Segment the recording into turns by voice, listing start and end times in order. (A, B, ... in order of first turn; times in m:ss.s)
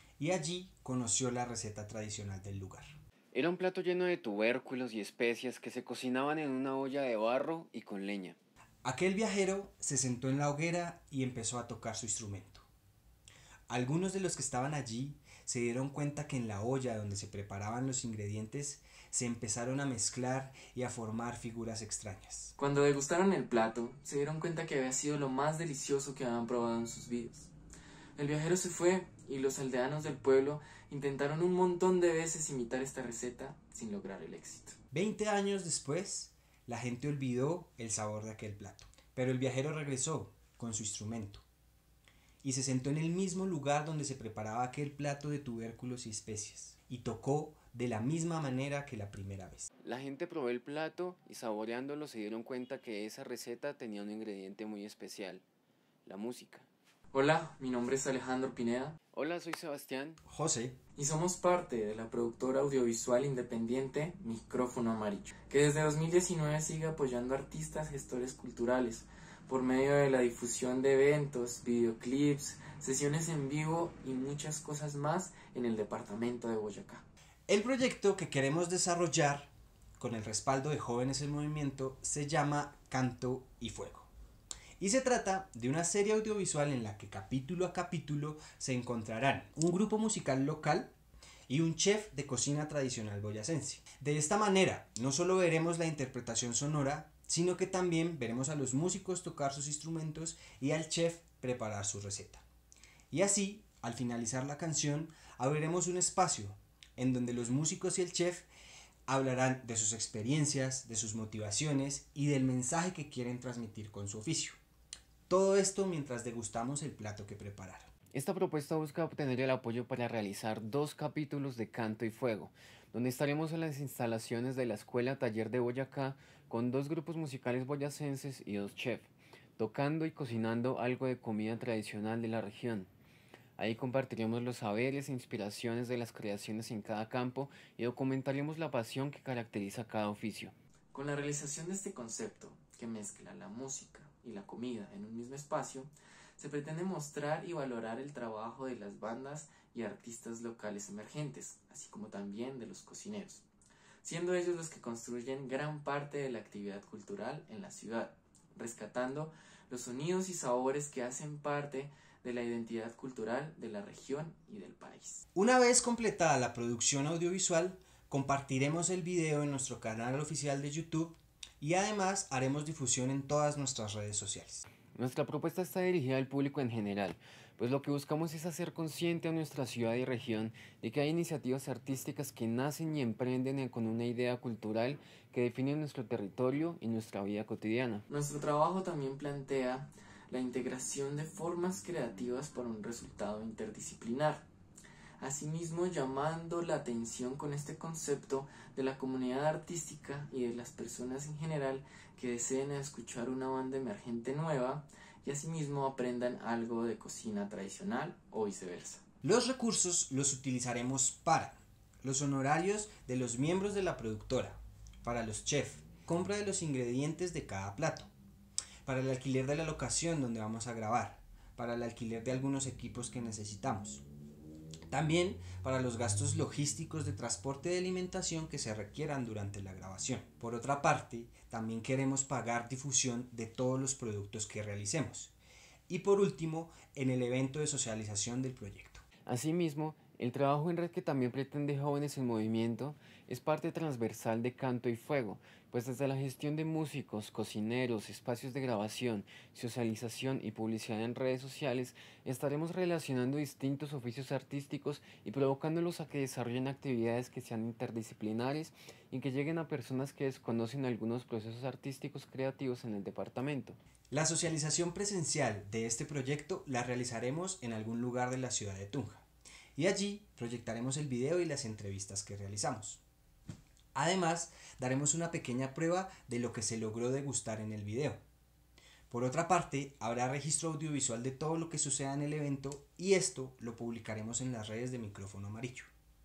0:00.2-0:03.0 A
0:03.3-0:08.4 B
0:08.8-0:12.7 A
0:13.7-0:22.5 A
0:22.6-0:27.5 C
0:28.2-0:34.8 C
0:34.9-0:41.4 A
0:42.4-0:49.7 A
0:49.8-0:55.4 B
0:56.1-0:56.7 B
0:57.1-0:59.0 C
0:59.1-1:00.2 B
1:00.3-1:00.8 A
1:01.0-1:17.0 C
1:17.5-1:24.1 A
1:24.8-1:30.9 A
1:31.5-1:42.4 A
1:43.1-1:48.5 A
1:49.1-1:54.6 A
1:55.3-1:57.9 A
1:58.1-2:12.9 B
2:13.6-2:20.5 B
2:20.9-2:33.5 C
2:34.0-2:45.2 C
2:45.3-2:54.7 A
2:54.9-3:08.0 B
3:08.1-3:14.5 C
3:15.2-3:29.0 C
3:29.2-3:38.1 A
3:38.8-3:44.0 A
3:44.9-3:55.3 A
3:55.9-3:59.0 A
3:59.3-4:23.8 B
4:24.1-4:29.2 A
4:29.8-4:33.0 A
4:34.0-4:38.2 A
4:39.1-4:45.9 A